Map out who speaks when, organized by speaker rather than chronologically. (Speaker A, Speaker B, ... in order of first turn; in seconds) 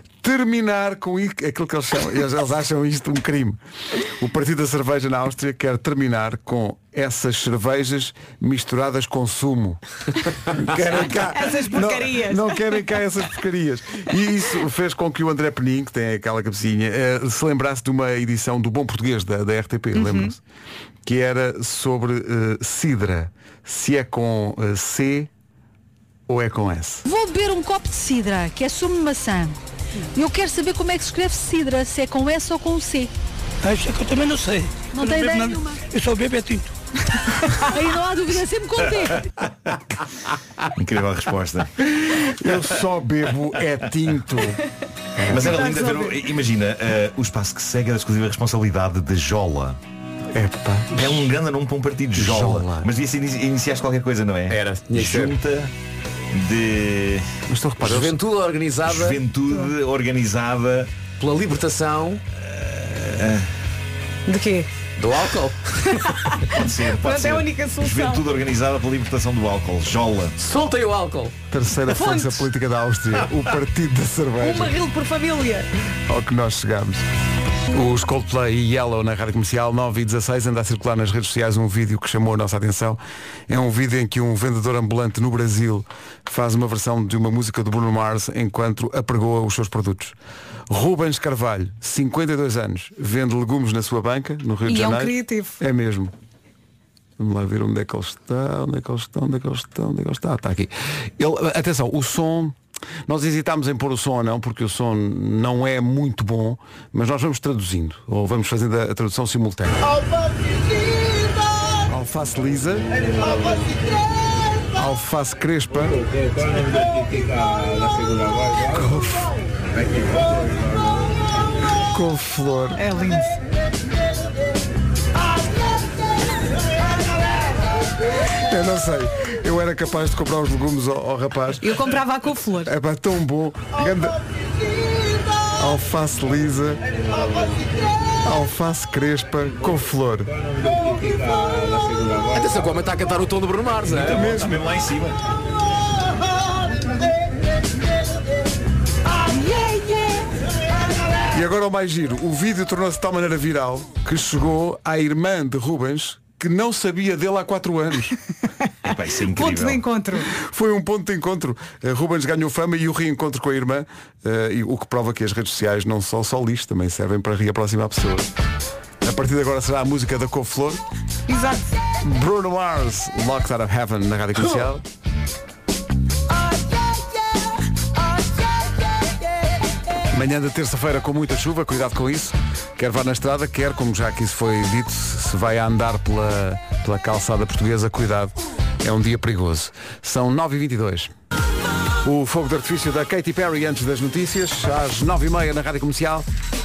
Speaker A: 0.2-9.8, 10.5-20.4, 21.1-25.3, 26.3-27.0, 42.2-44.6, 45.2-45.7, 50.3-51.3, 52.1-52.9, 57.5-58.2, 71.5-74.8, 76.1-77.0, 77.7-90.2, 90.7-96.1, 97.2-102.6, 103.1-109.9, 111.9-112.9, 114.8-116.0, 118.6-119.3, 121.9-122.8, 128.5-131.8, 132.7-134.2, 135.6-136.8, 138.2-140.3, 144.0-144.6, 151.3-158.2, 160.4-168.3, 169.0-170.8, 172.0-174.8, 180.1-191.1, 192.0-196.3
Speaker B: 11.3-12.6, 19.9-20.3, 45.4-46.2, 64.3-64.7, 65.9-68.2, 71.9-72.5, 74.4-75.7, 94.7-95.6, 122.8-123.4, 131.6-132.7, 149.4-150.2, 159.3-160.3, 171.3-171.8
Speaker C: 27.1-29.6, 30.1-33.1, 35.0-35.6, 37.6-39.2
Speaker D: 33.6-36.7
Speaker E: 40.8-41.7, 45.3-49.8, 50.9-55.7, 56.3-57.2, 58.9-60.9, 62.4-63.5, 66.5-70.3, 143.8-145.2, 158.8-159.8
Speaker F: 54.5-55.4, 57.8-59.2, 61.2-62.2, 65.0-66.1, 70.4-71.3, 142.3-144.4